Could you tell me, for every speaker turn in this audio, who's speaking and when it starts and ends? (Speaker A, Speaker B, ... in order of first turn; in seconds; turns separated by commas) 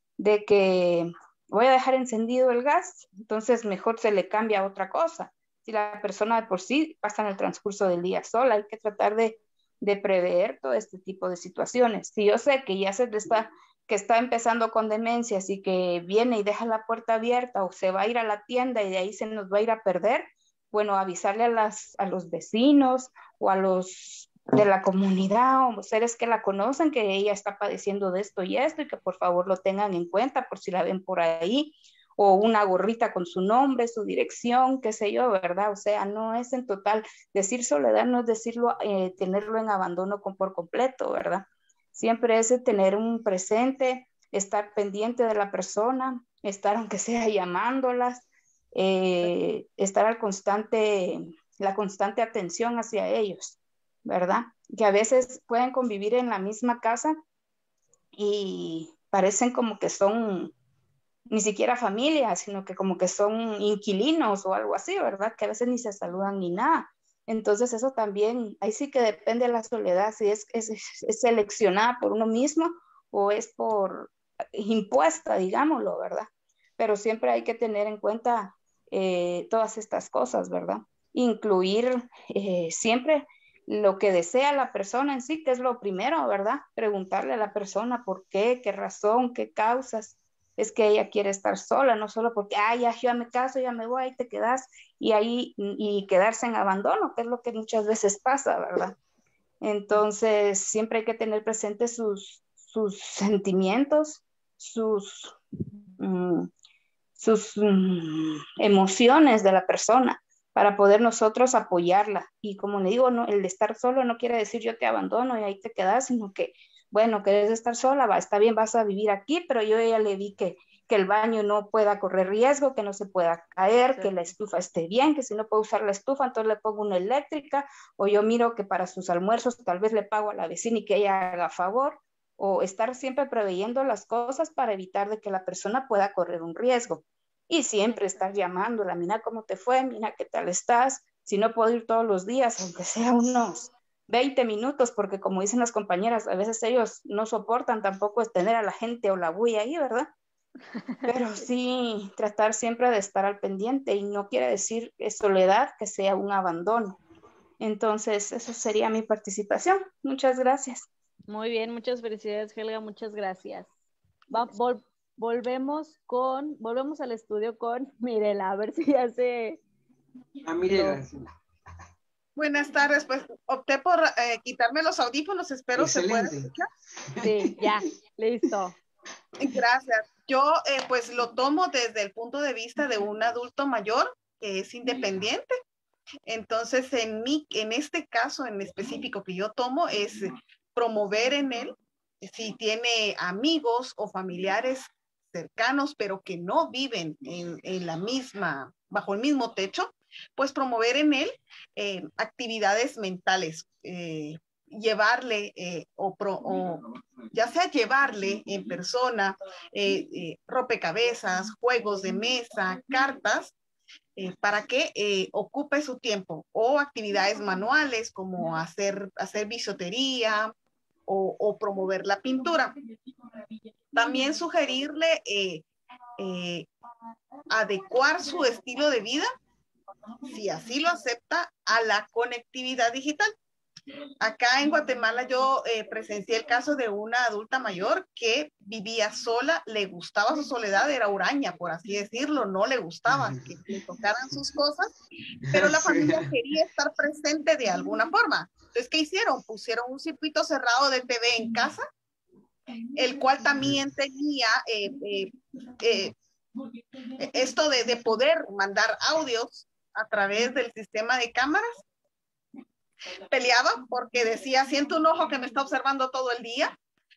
Speaker A: 0.2-57.2, Speaker A: 58.2-60.5, Speaker A: 61.3-76.3, Speaker A: 76.8-99.0, Speaker A: 99.6-105.3, Speaker A: 106.0-106.5, Speaker A: 107.2-150.1, Speaker B: 123.9-124.3, Speaker B: 137.9-138.2, Speaker A: 151.1-157.0, Speaker A: 157.6-160.9, Speaker B: 161.3-163.7, Speaker B: 164.3-169.6, Speaker C: 170.5-171.2, Speaker B: 170.7-171.0, Speaker D: 172.4-176.7, Speaker C: 175.8-176.5, Speaker B: 177.2-178.8, Speaker D: 179.4-185.5, Speaker D: 186.3-213.5, Speaker D: 214.2-220.5, Speaker D: 221.1-222.8, Speaker D: 223.9-225.7, Speaker D: 226.2-226.7, Speaker D: 227.5-229.3, Speaker D: 230.3-233.3, Speaker D: 234.2-244.9, Speaker C: 243.1-243.5, Speaker D: 245.5-251.8, Speaker C: 245.5-246.3, Speaker D: 252.9-256.1, Speaker D: 257.2-261.7, Speaker D: 263.3-266.8